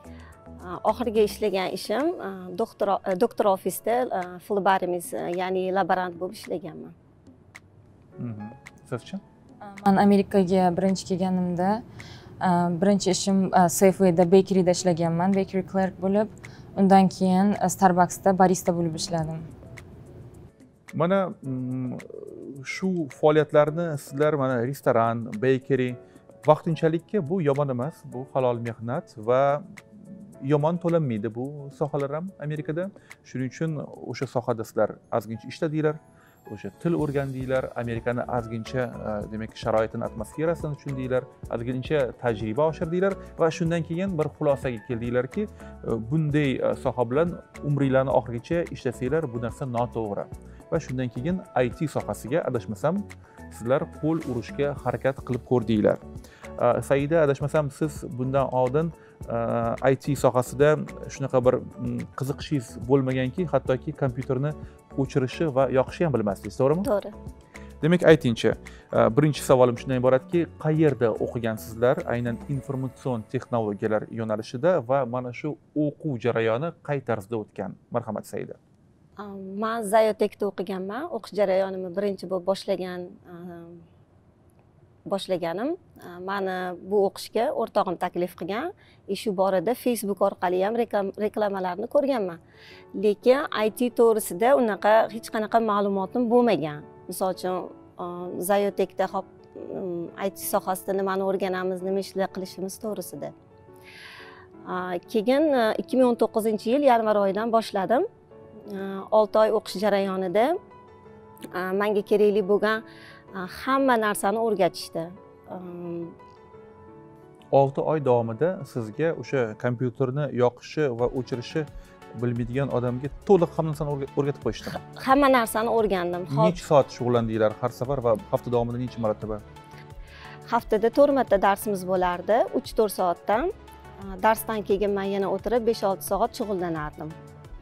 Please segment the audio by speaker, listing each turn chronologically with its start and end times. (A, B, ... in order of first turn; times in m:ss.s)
0:00.6-0:07.0 A
0:08.2-0:09.2 B
0:09.6-0:11.8 C
0:12.4-0:19.5 C
0:20.9-0:29.6 B
0:30.4-0:56.0 B
0:56.6-1:06.9 B
1:06.8-1:07.1 A
1:07.8-1:18.6 B
1:19.2-1:23.8 A
1:25.1-1:32.4 A
1:33.0-1:43.3 A
1:44.7-1:48.0 A
1:48.7-1:50.6 A
1:51.5-1:56.2 A
1:57.5-2:04.8 B
2:04.8-2:06.6 A
2:06.3-2:09.4 B
2:10.5-2:17.2 A